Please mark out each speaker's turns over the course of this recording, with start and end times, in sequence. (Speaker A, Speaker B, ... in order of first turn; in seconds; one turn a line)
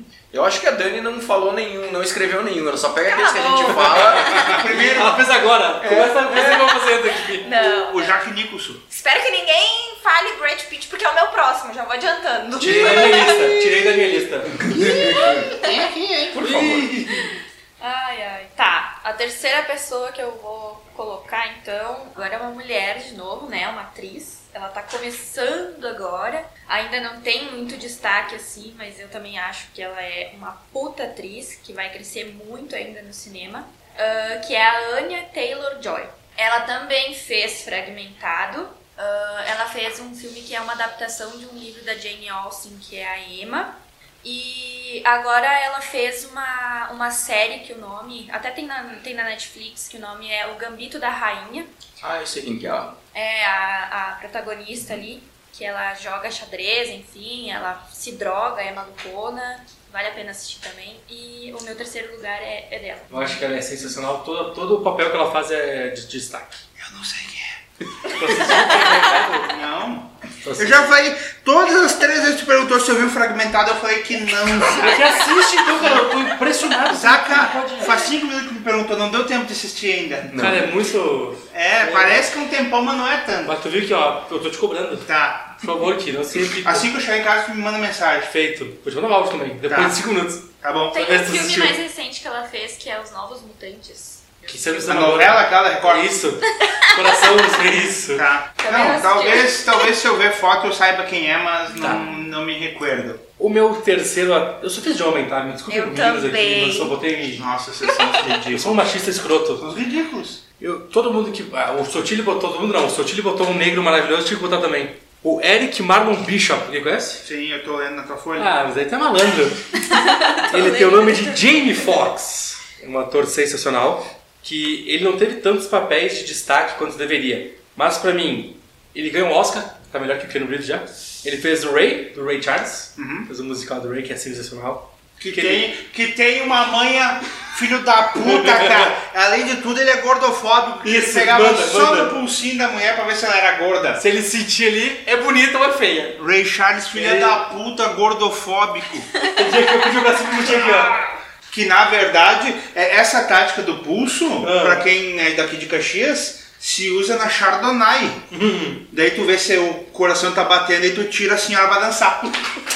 Speaker A: 0.3-4.5
Speaker B: 3.0-4.6
Speaker C: 4.2-7.5
Speaker D: 4.3-5.2
Speaker A: 5.8-6.6
Speaker B: 7.3-8.2
Speaker D: 7.4-8.8
Speaker B: 8.9-13.5
Speaker C: 12.6-14.7
Speaker D: 12.7-13.3
Speaker A: 14.6-15.4
Speaker D: 14.8-16.8
Speaker E: 15.1-15.5
Speaker C: 16.3-17.3
Speaker A: 16.4-16.9
Speaker E: 17.2-51.7
Speaker A: 52.0-53.0
Speaker E: 53.1-63.3
Speaker C: 63.1-66.6
Speaker D: 66.8-67.5
Speaker C: 68.1-69.5
Speaker D: 68.1-76.1
Speaker C: 70.4-70.9
Speaker C: 74.7-78.0
Speaker D: 76.9-80.5
Speaker A: 80.3-80.7
Speaker C: 80.3-82.3
Speaker D: 81.5-83.5
Speaker C: 83.4-85.1
Speaker D: 85.0-85.6
Speaker C: 85.6-86.9
Speaker D: 86.5-88.3
Speaker C: 88.2-91.8
Speaker D: 89.7-90.0
Speaker D: 90.6-91.1
Speaker E: 90.9-94.5
Speaker C: 94.5-98.3
Speaker D: 94.8-96.1
Speaker D: 98.1-103.2
Speaker E: 98.6-99.5
Speaker C: 101.8-102.1
Speaker C: 103.4-107.5
Speaker B: 105.7-106.9
Speaker D: 107.3-108.9
Speaker C: 108.5-109.6
Speaker D: 109.6-110.4
Speaker C: 110.6-117.2
Speaker D: 117.2-118.5
Speaker C: 118.3-135.7
Speaker B: 120.2-121.4
Speaker D: 133.0-133.3
Speaker D: 135.2-144.0
Speaker C: 138.2-138.9
Speaker C: 140.8-142.2
Speaker C: 144.0-146.2
Speaker D: 146.2-149.2
Speaker C: 146.9-147.4
Speaker C: 149.3-150.9
Speaker D: 150.3-158.2
Speaker C: 154.4-154.8
Speaker C: 158.3-158.9
Speaker D: 158.9-162.7